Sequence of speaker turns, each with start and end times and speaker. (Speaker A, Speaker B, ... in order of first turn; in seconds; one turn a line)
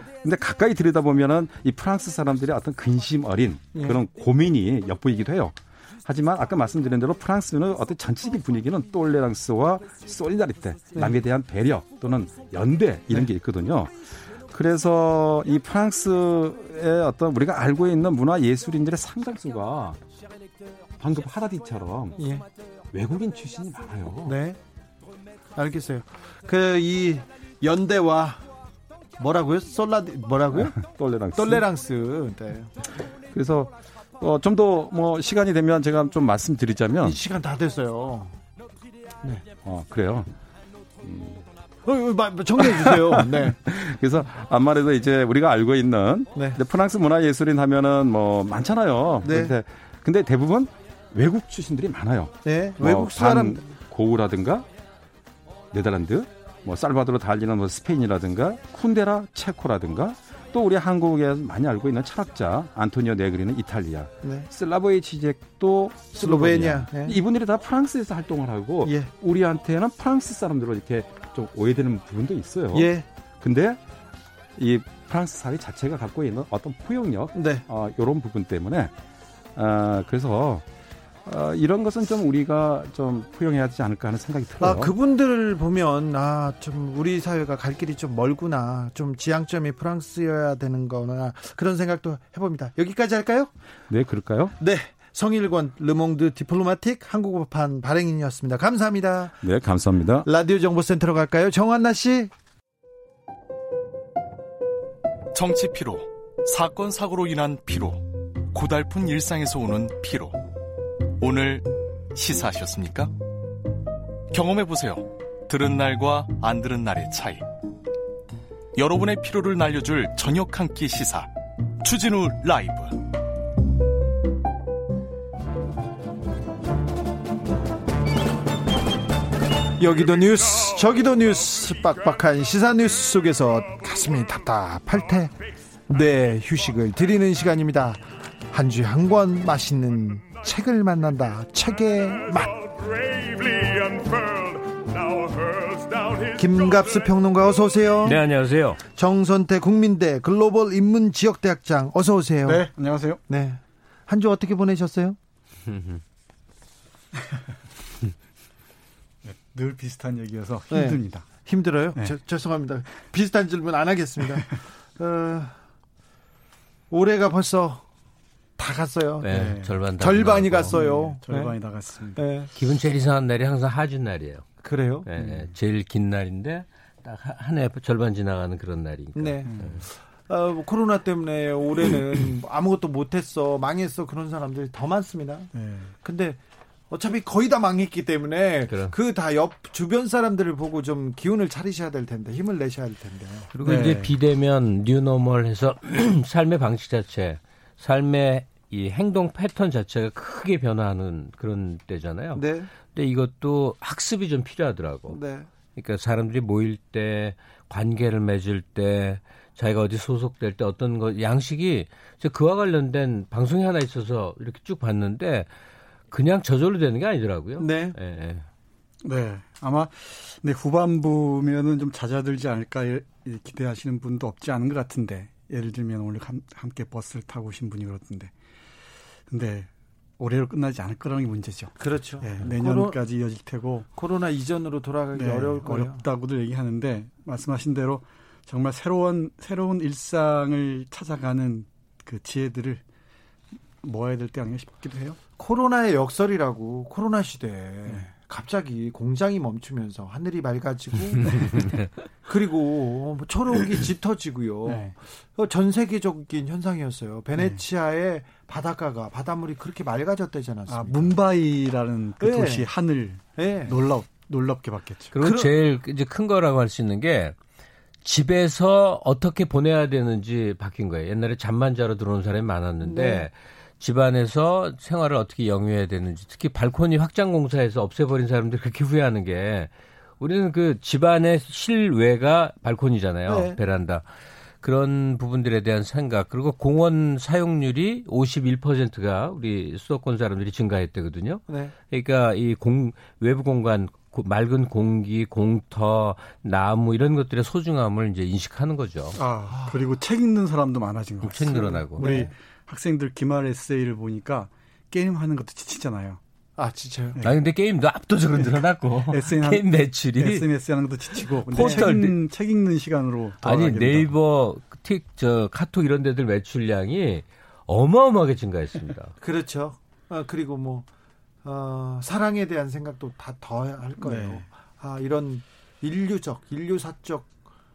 Speaker A: 0.2-20.0
Speaker B: 3.7-4.0
Speaker B: 10.9-11.2
Speaker A: 21.0-22.2
Speaker B: 22.2-22.5
Speaker A: 22.9-24.4
Speaker B: 24.2-24.6
Speaker B: 25.5-28.4
Speaker B: 29.2-30.8
Speaker A: 30.5-31.6
Speaker B: 31.4-32.7
Speaker A: 33.3-37.2
Speaker B: 37.0-38.4
Speaker A: 39.6-40.3
Speaker A: 41.0-41.5
Speaker B: 41.9-43.6
Speaker A: 42.6-54.7
Speaker B: 46.4-46.6
Speaker B: 49.2-49.5
Speaker B: 52.5-53.6
Speaker A: 55.7-73.8
Speaker B: 66.2-67.2
Speaker B: 68.8-69.1
Speaker B: 72.7-73.0
Speaker A: 74.6-78.9
Speaker B: 77.3-77.6
Speaker A: 79.5-80.6
Speaker A: 81.2-84.9
Speaker B: 84.6-93.5
Speaker A: 93.9-94.5
Speaker B: 94.6-99.4
Speaker A: 99.4-100.3
Speaker B: 100.2-102.3
Speaker C: 105.3-110.4
Speaker C: 111.2-113.1
Speaker C: 114.3-117.5
Speaker C: 118.8-121.3
Speaker C: 121.8-123.0
Speaker B: 129.8-135.3
Speaker B: 135.9-142.7
Speaker B: 146.3-148.2
Speaker D: 148.0-148.8
Speaker B: 148.9-152.7
Speaker E: 152.4-153.2
Speaker B: 153.3-155.2
Speaker D: 155.7-156.0
Speaker E: 159.2-161.3
Speaker B: 160.7-165.6
Speaker B: 166.9-167.8
Speaker B: 168.6-171.6
Speaker D: 169.2-170.8
Speaker E: 169.3-169.8
Speaker E: 170.7-172.3
Speaker B: 172.1-172.5
Speaker D: 172.6-174.5
Speaker B: 174.6-175.1
Speaker D: 175.1-179.8
Speaker E: 175.2-175.5
Speaker B: 179.1-185.5
Speaker E: 185.5-185.9
Speaker B: 186.0-186.4
Speaker B: 186.9-193.5
Speaker D: 188.7-188.9
Speaker D: 193.5-205.2
Speaker E: 193.6-194.1
Speaker B: 202.3-202.7
Speaker B: 205.1-205.5
Speaker D: 205.8-215.5
Speaker D: 216.1-218.4
Speaker B: 217.6-218.0
Speaker E: 219.0-228.3
Speaker E: 229.3-233.9
Speaker B: 231.8-233.0
Speaker B: 233.9-236.1
Speaker E: 235.1-242.8
Speaker E: 243.8-245.2
Speaker B: 245.4-251.7
Speaker D: 251.4-251.9
Speaker B: 252.3-261.2
Speaker E: 254.6-254.9
Speaker E: 257.4-257.6
Speaker E: 260.7-265.1
Speaker B: 262.2-262.7
Speaker B: 263.4-263.8
Speaker D: 265.1-267.4
Speaker B: 265.2-265.5
Speaker D: 268.0-284.1
Speaker B: 272.8-273.3
Speaker B: 283.3-283.6
Speaker D: 284.6-299.2
Speaker B: 291.5-291.7
Speaker E: 299.1-306.2
Speaker B: 299.5-299.8
Speaker D: 301.2-302.1
Speaker B: 302.0-302.3
Speaker B: 306.6-307.2
Speaker D: 307.2-310.5
Speaker E: 309.1-314.1
Speaker D: 311.5-312.1
Speaker B: 311.6-311.9
Speaker D: 313.4-319.1
Speaker B: 319.2-320.9
Speaker B: 321.4-327.3
Speaker E: 324.0-324.4